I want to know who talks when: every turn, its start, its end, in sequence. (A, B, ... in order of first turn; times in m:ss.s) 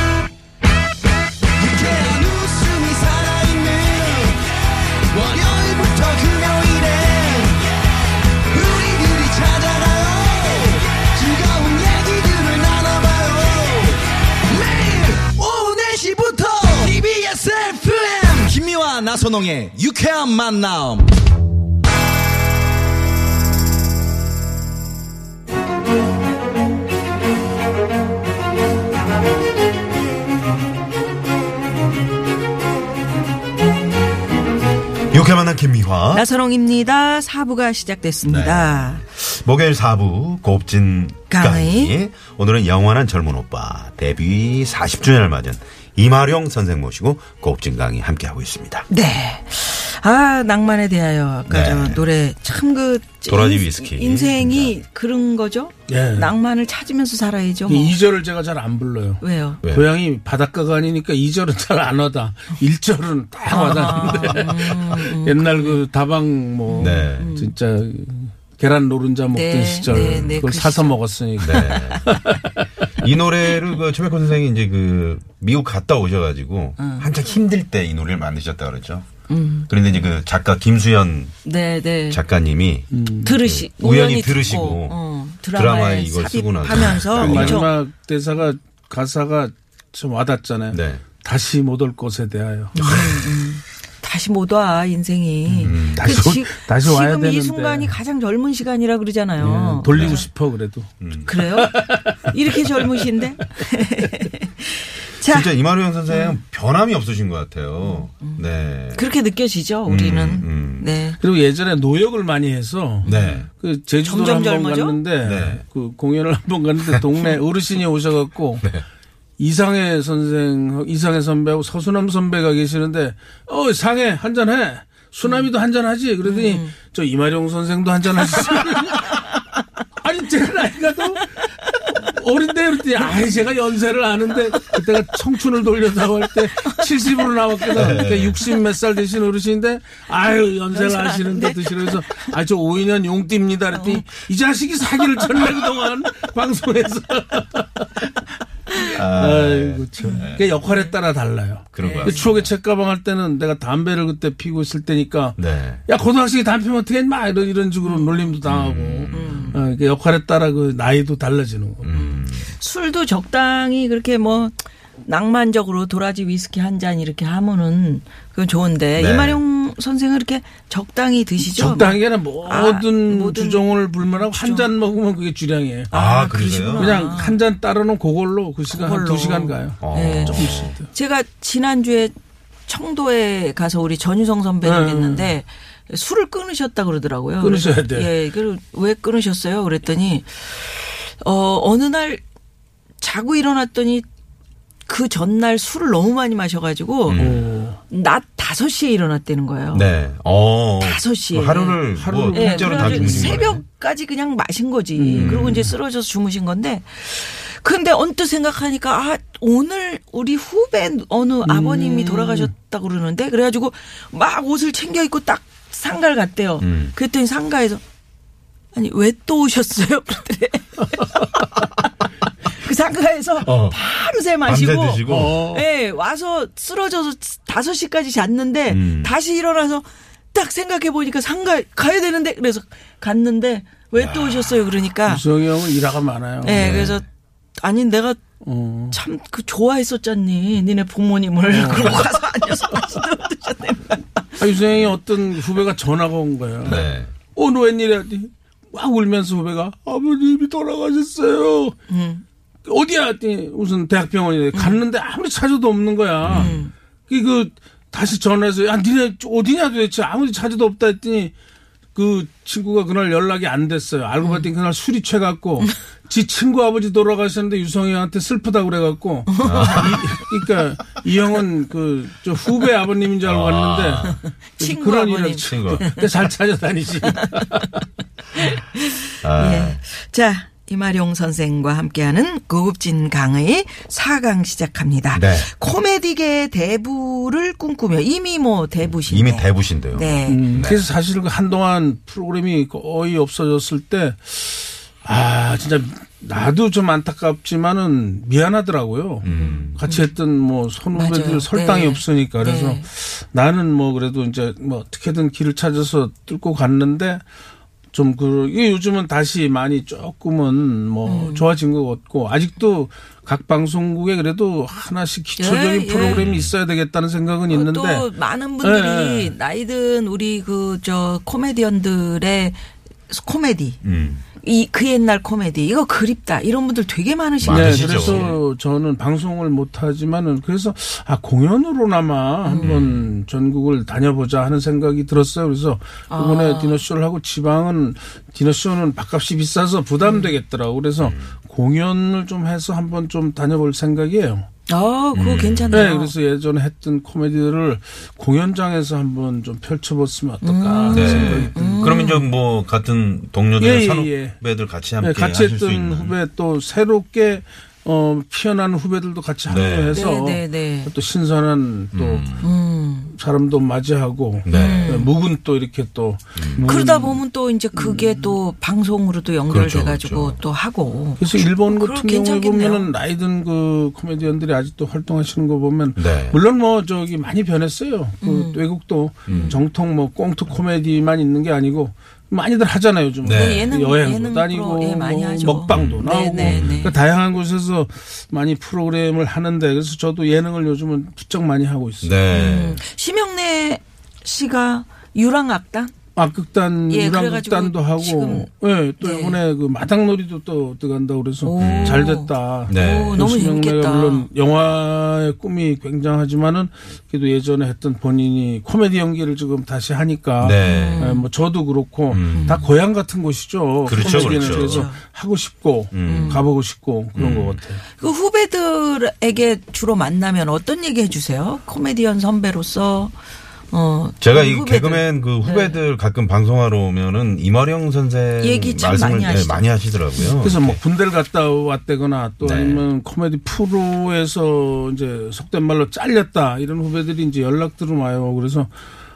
0:01.6-0:04.4 A
0:05.1-0:07.6 A
0:08.5-0:21.1 A
0:35.1-0:36.2 B
0:36.1-0:39.0 C
0:38.3-0:48.9 B
0:41.3-0:42.0 C
0:48.9-0:58.0 C
0:51.5-0:52.0 B
0:53.3-0:54.8 B
0:55.9-0:56.3 D
0:57.7-1:12.5 D
0:59.2-0:59.6 C
1:03.5-1:05.8 C
1:06.7-1:07.5 C
1:06.8-1:07.3 B
1:09.3-1:12.2 C
1:09.9-1:10.4 B
1:11.4-1:12.2 B
1:13.0-1:19.1 B
1:16.8-1:17.1 C
1:19.3-1:20.1 C
1:19.7-1:21.4 B
1:21.4-1:22.2 C
1:22.1-1:25.0 B
1:22.9-1:23.4 D
1:23.2-1:27.8 C
1:25.5-1:27.7 B
1:27.2-1:32.8 D
1:30.7-1:31.0 B
1:32.7-1:40.2 C
1:32.8-1:33.4 B
1:35.5-1:38.0 D
1:35.5-1:36.2 B
1:39.4-1:43.2 D
1:39.9-1:40.2 B
1:41.0-1:41.5 B
1:41.2-1:45.5 C
1:45.2-1:49.1 B
1:46.1-1:46.4 C
1:47.8-1:51.2 C
1:49.9-1:50.9 B
1:51.2-1:58.7 D
1:53.0-1:53.4 C
1:53.0-1:53.5 B
1:54.0-1:55.0 C
1:55.2-1:55.6 B
1:59.4-2:09.2 D
2:06.2-2:06.7 C
2:10.0-2:41.9 D
2:17.8-2:18.4 B
2:20.7-2:22.3 C
2:23.7-2:24.2 C
2:25.2-2:25.5 C
2:29.0-2:30.6 B
2:30.0-2:31.0 C
2:31.7-2:32.5 B
2:31.8-2:32.3 C
2:35.4-2:35.8 B
2:37.8-2:38.4 C
2:38.5-2:39.6 B
2:39.1-2:39.6 C
2:41.8-2:42.5 B
2:41.9-2:54.7 C
2:49.0-2:49.4 B
2:51.5-2:56.0 D
2:55.9-2:57.0 B
2:55.9-2:57.4 C
2:56.8-3:00.9 D
2:58.7-3:02.1 C
2:59.8-3:00.7 B
3:02.7-3:12.2 C
3:04.6-3:05.3 D
3:07.4-3:08.1 D
3:13.0-3:14.1 C
3:14.9-3:17.3 C
3:17.1-3:17.4 B
3:17.2-3:17.8 D
3:17.9-3:19.9 C
3:19.7-3:23.6 B
3:20.8-3:37.8 C
3:21.9-3:23.6 D
3:25.0-3:25.7 D
3:25.2-3:25.6 B
3:31.4-3:32.5 D
3:36.6-3:36.9 B
3:38.7-3:41.5 C
3:42.5-3:55.2 C
3:43.4-3:43.8 B
3:44.4-3:45.4 B
3:45.1-3:45.6 D
3:48.7-3:49.1 B
3:54.0-3:54.8 B
3:55.1-3:56.7 D
3:56.4-3:57.1 C
3:56.5-3:57.0 B
3:57.6-3:58.2 C
3:58.4-3:59.0 D
3:58.9-4:04.5 C
4:01.5-4:02.1 D
4:04.4-4:11.8 D
4:06.6-4:07.1 B
4:11.9-4:12.2 C
4:12.7-4:21.3 D
4:14.5-4:14.8 C
4:16.2-4:16.6 B
4:16.3-4:16.7 C
4:22.0-4:37.7 D
4:24.2-4:24.5 C
4:29.3-4:30.2 C
4:29.4-4:30.0 B
4:33.2-4:34.2 B
4:34.6-4:36.2 C
4:35.5-4:35.9 B
4:37.2-4:37.7 C
4:38.4-4:50.7 C
4:39.2-4:39.8 B
4:45.1-4:45.5 B
4:48.8-4:50.8 B
4:50.3-5:07.2 D
4:59.2-4:59.8 B
4:59.3-5:00.1 C
5:00.9-5:02.8 C
5:07.9-5:18.1 D
5:11.0-5:11.5 C
5:15.4-5:16.3 C
5:16.0-5:16.5 B
5:17.5-5:23.8 C
5:18.6-5:19.4 D
5:23.8-5:24.2 B
5:24.4-5:28.4 C
5:27.4-5:28.4 B
5:27.5-5:44.5 D
5:32.4-5:32.8 C
5:32.6-5:33.1 B
5:36.1-5:36.8 C
5:40.0-5:40.3 C
5:41.0-5:41.3 B
5:44.7-5:46.1 C
5:45.1-5:45.9 B
5:45.7-5:52.2 D
5:50.4-5:52.3 C
5:50.9-5:56.2 B
5:53.6-5:54.4 D
5:55.0-6:02.3 D
5:59.5-6:00.0 B
5:59.9-6:00.9 C
6:01.9-6:02.5 B
6:02.4-6:03.1 C
6:03.1-6:07.2 D
6:04.5-6:05.0 B
6:04.5-6:05.1 C
6:06.4-6:06.6 B
6:06.6-6:12.9 C
6:07.7-6:08.4 D
6:09.5-6:10.4 B
6:11.2-6:32.1 D
6:16.0-6:16.4 B
6:18.2-6:18.6 C
6:19.3-6:19.6 B
6:19.3-6:19.6 C
6:23.2-6:23.7 B
6:23.3-6:27.0 C
6:25.7-6:26.9 B
6:32.0-6:32.8 B
6:32.3-6:35.9 C
6:36.2-6:57.8 D
6:36.9-6:38.5 C
6:39.0-6:39.4 C
6:41.4-6:44.3 C
6:41.6-6:43.2 B
6:50.4-6:51.1 B
6:50.6-6:51.2 C
6:52.1-6:52.6 B
6:52.3-6:52.7 C
6:53.9-6:54.9 B
6:53.9-6:55.0 C
6:55.9-6:56.4 B
6:56.0-6:56.4 C
6:57.2-6:57.6 B
6:58.0-7:03.2 C
7:03.7-7:05.8 C
7:04.2-7:10.8 B
7:08.4-7:09.7 C
7:10.3-7:18.7 D
7:12.4-7:12.8 B